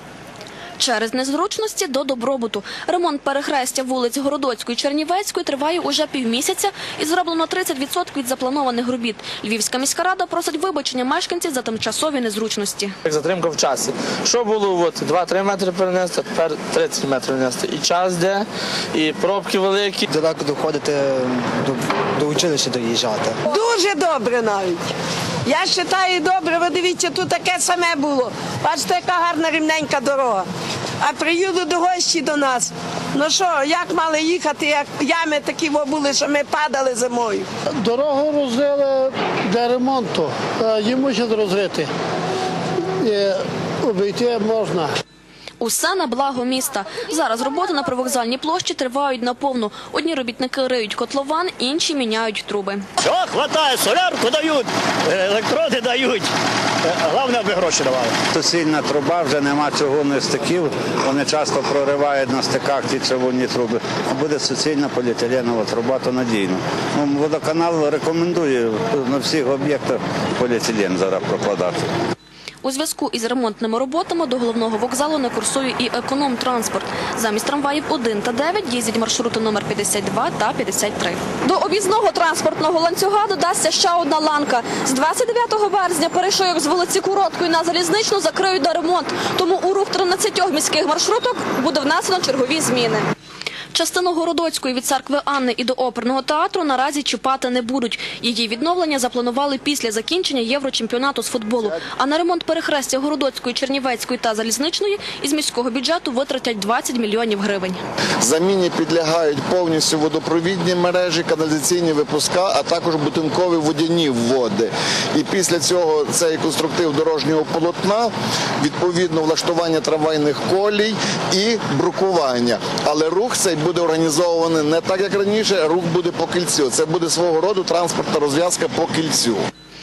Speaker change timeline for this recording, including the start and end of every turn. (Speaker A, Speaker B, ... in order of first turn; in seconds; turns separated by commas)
Speaker A: 0.8-12.9, Speaker B: 13.0-20.0, Speaker C: 20.1-23.4, Speaker D: 23.5-24.9, Speaker D: 25.4-30.5, Speaker D: 31.0-37.5, Speaker E: 37.8-41.9, Speaker E: 43.0-44.9, Speaker A: 45.6-52.9, Speaker F: 53.0-56.3, Speaker F: 56.8-58.1, Speaker G: 58.3-71.9, Speaker A: 72.6-93.0, Speaker A: 93.7-107.8, Speaker H: 108.2-129.4